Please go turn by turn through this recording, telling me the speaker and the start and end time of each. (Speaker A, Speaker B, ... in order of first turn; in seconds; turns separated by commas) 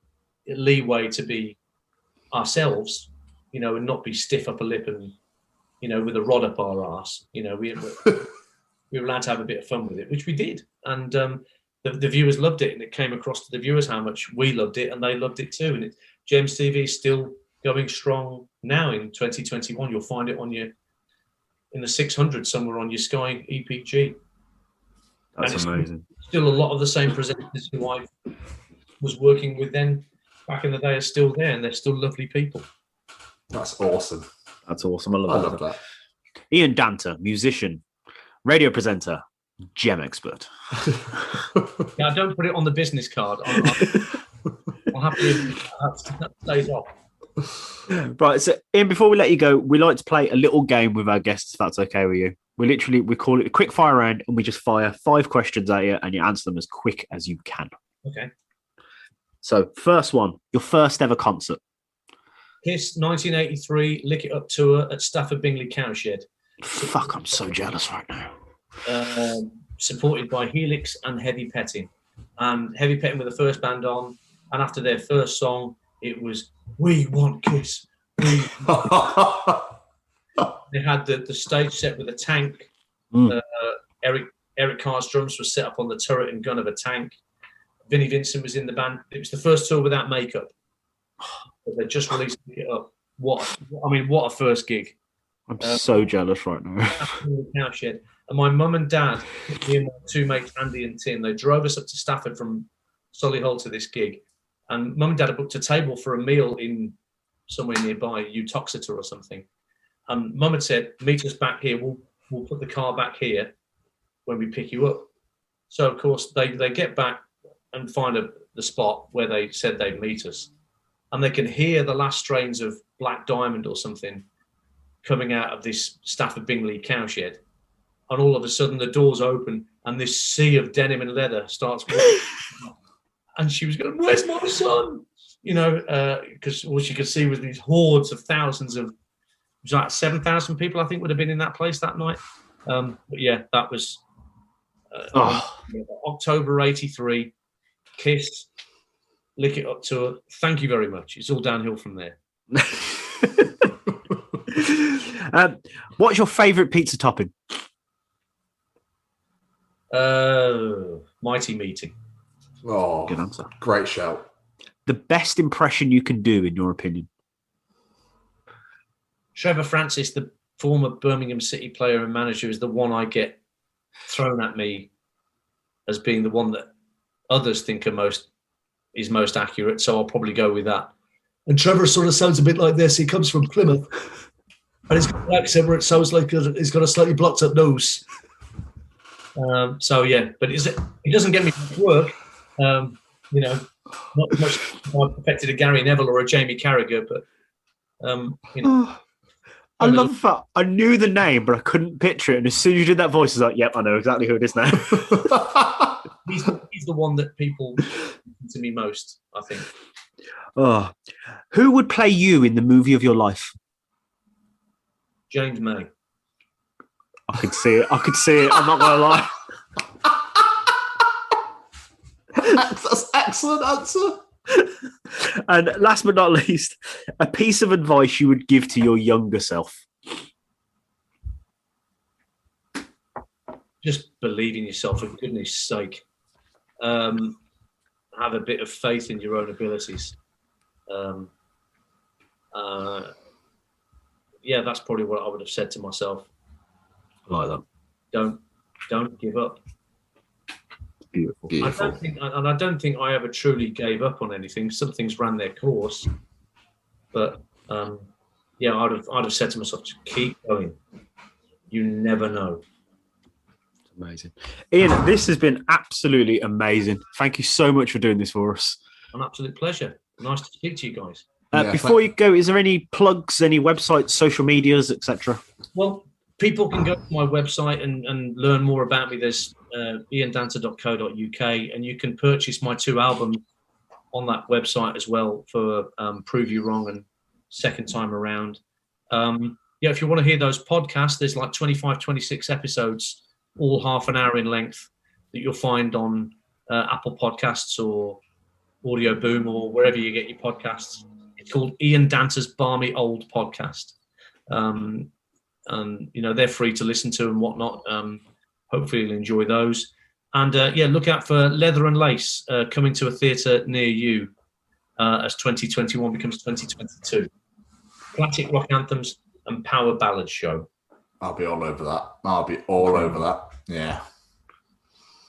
Speaker A: 0.5-1.6, Speaker A: 2.3-5.2, Speaker A: 5.8-8.3, Speaker A: 8.9-20.7, Speaker A: 21.7-24.2, Speaker B: 25.4-26.1, Speaker A: 25.4-28.1, Speaker A: 29.0-32.7, Speaker C: 33.5-34.3, Speaker B: 34.7-35.6, Speaker C: 35.3-35.8, Speaker B: 36.5-37.8, Speaker B: 38.5-39.2, Speaker B: 39.7-41.0, Speaker A: 42.0-44.0, Speaker A: 44.9-46.9, Speaker B: 47.9-57.7, Speaker A: 58.0-58.3, Speaker B: 59.4-61.6, Speaker A: 62.6-67.4, Speaker B: 66.6-68.3, Speaker A: 68.8-78.8, Speaker C: 78.6-79.7, Speaker A: 80.7-82.7, Speaker A: 83.3-87.2, Speaker A: 87.9-90.5, Speaker A: 91.7-95.0, Speaker B: 95.5-97.2, Speaker A: 95.6-96.0, Speaker A: 96.9-107.0, Speaker A: 107.5-109.5, Speaker A: 110.1-113.5, Speaker A: 114.3-115.1, Speaker A: 115.7-120.5, Speaker A: 121.1-124.2, Speaker A: 125.0-127.4, Speaker A: 128.1-132.7, Speaker A: 133.4-138.9, Speaker A: 139.6-144.0, Speaker A: 144.9-147.3, Speaker B: 145.1-145.6, Speaker A: 148.0-148.5, Speaker A: 149.4-152.2, Speaker B: 152.5-153.7, Speaker B: 154.5-157.3, Speaker A: 159.9-161.9, Speaker C: 162.6-164.3, Speaker B: 163.1-163.5, Speaker B: 164.9-167.1, Speaker A: 169.3-173.4, Speaker A: 174.1-174.9, Speaker A: 175.9-176.7, Speaker A: 177.3-178.3, Speaker A: 178.9-180.9, Speaker A: 181.5-183.9, Speaker A: 184.9-188.0, Speaker A: 189.4-197.2, Speaker A: 198.0-198.8, Speaker B: 198.6-199.0, Speaker B: 199.8-205.4, Speaker A: 199.8-200.1, Speaker C: 205.3-205.6, Speaker A: 206.2-209.7, Speaker B: 210.6-210.9, Speaker B: 211.5-213.5, Speaker A: 215.3-215.9, Speaker B: 217.3-219.3, Speaker C: 222.4-224.2, Speaker B: 224.5-229.9, Speaker A: 233.8-236.0, Speaker A: 236.8-237.4, Speaker A: 238.2-240.2, Speaker A: 240.9-241.3, Speaker A: 242.5-243.1, Speaker A: 244.4-246.3, Speaker B: 247.3-247.6, Speaker A: 248.1-249.6, Speaker B: 251.1-251.9, Speaker A: 251.6-256.1, Speaker A: 257.1-258.1, Speaker A: 258.6-260.8, Speaker A: 261.7-262.6, Speaker B: 263.9-268.8, Speaker A: 269.1-271.3, Speaker B: 271.5-275.4, Speaker C: 271.5-272.0, Speaker A: 275.8-283.4, Speaker A: 284.1-288.6, Speaker A: 289.1-298.2, Speaker A: 298.8-304.0, Speaker A: 304.5-305.1, Speaker A: 305.7-314.3, Speaker A: 315.0-317.3, Speaker A: 318.1-320.7, Speaker C: 321.2-324.0